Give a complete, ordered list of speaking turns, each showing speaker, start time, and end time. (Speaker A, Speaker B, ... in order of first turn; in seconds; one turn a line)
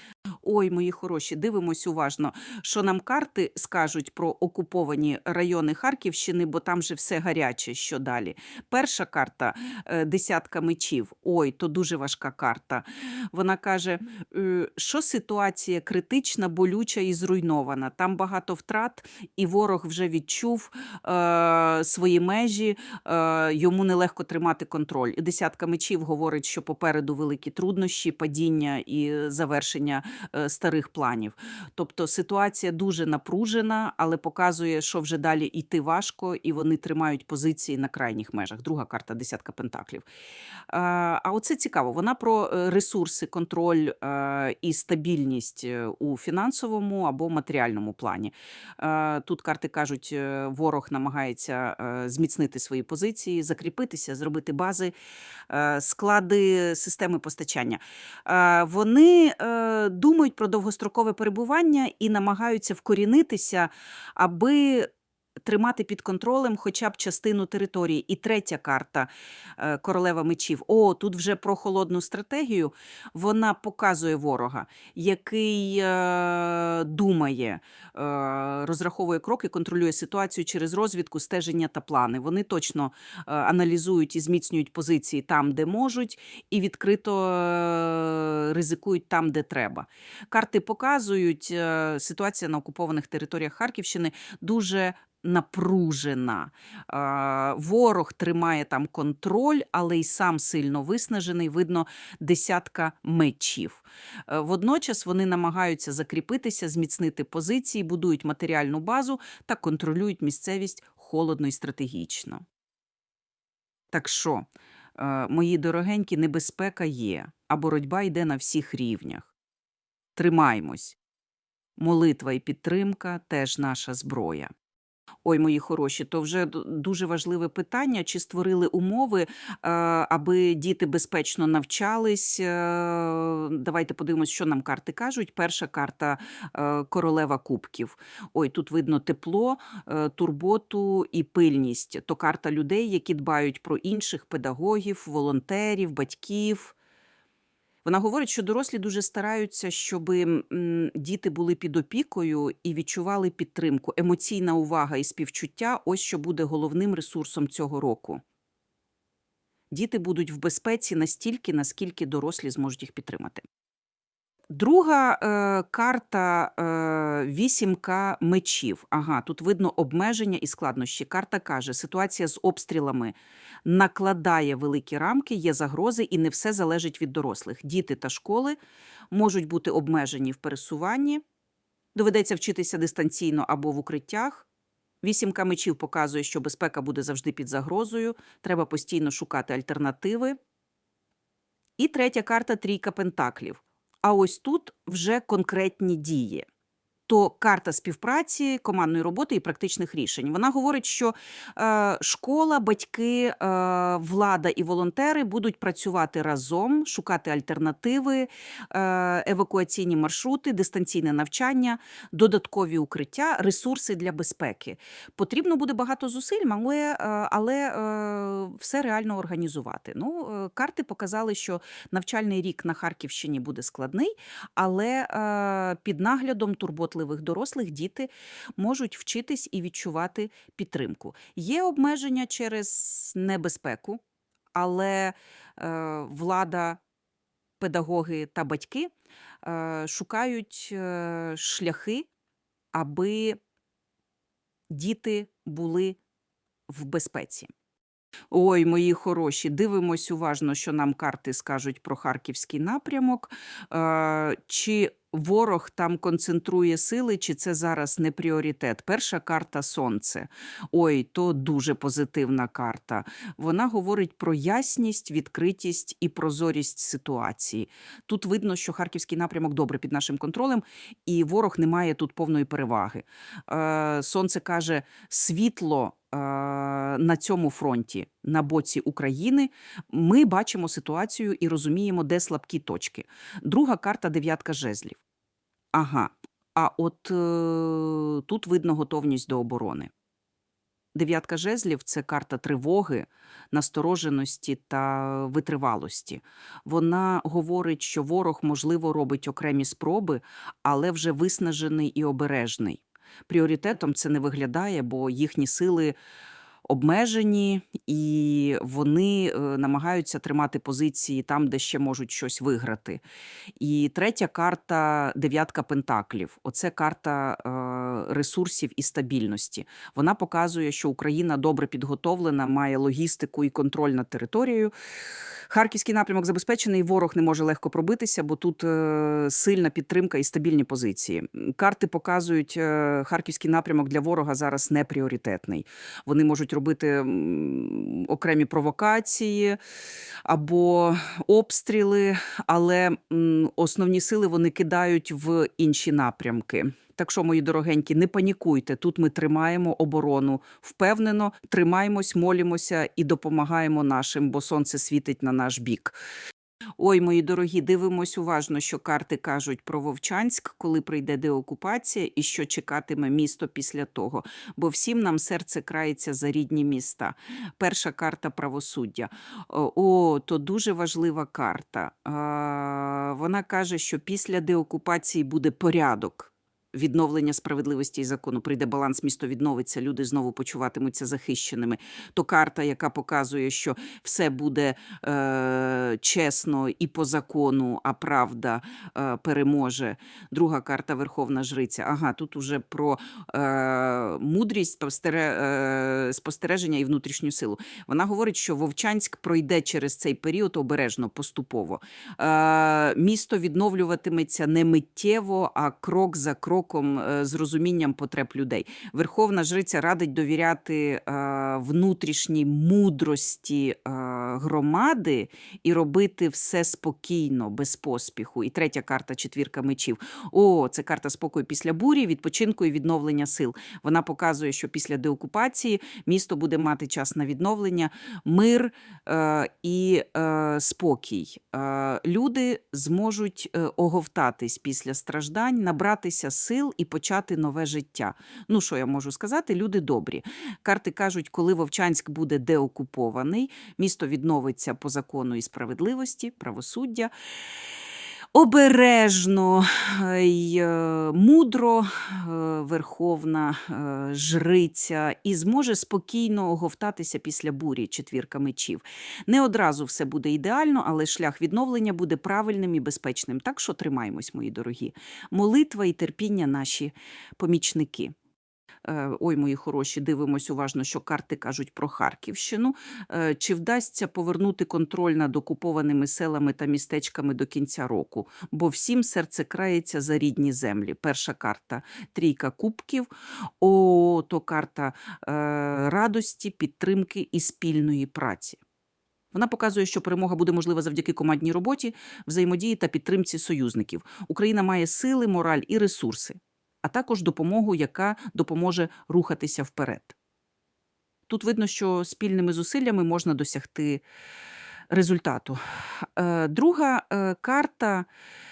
Speaker A: 0.4-40.0
Speaker A: 40.7-55.0
Speaker A: 55.5-64.9
Speaker A: 65.5-112.4
Speaker A: 113.9-119.3
Speaker A: 120.2-121.0
Speaker A: 121.8-124.5
Speaker A: 125.2-146.8
Speaker A: 147.8-158.2
Speaker A: 159.7-163.4
Speaker A: 164.5-178.6
Speaker A: 179.1-181.2
Speaker A: 181.9-184.5
Speaker A: 185.0-190.4
Speaker A: 191.8-196.5
Speaker A: 197.1-234.0
Speaker A: 234.5-236.8
Speaker A: 237.6-238.9
Speaker A: 239.4-242.1
Speaker A: 242.7-243.4
Speaker A: 244.7-246.0
Speaker A: 246.7-247.5
Speaker A: 248.3-285.0
Speaker A: 285.7-289.9
Speaker A: 290.9-306.0
Speaker A: 306.7-313.0
Speaker A: 313.6-324.7
Speaker A: 325.5-339.6
Speaker A: 340.2-356.0
Speaker A: 356.8-447.1
Speaker A: 448.3-468.1
Speaker A: 468.8-483.1
Speaker A: 483.6-488.6
Speaker A: 489.3-500.2
Speaker A: 501.3-504.0
Speaker A: 504.9-508.1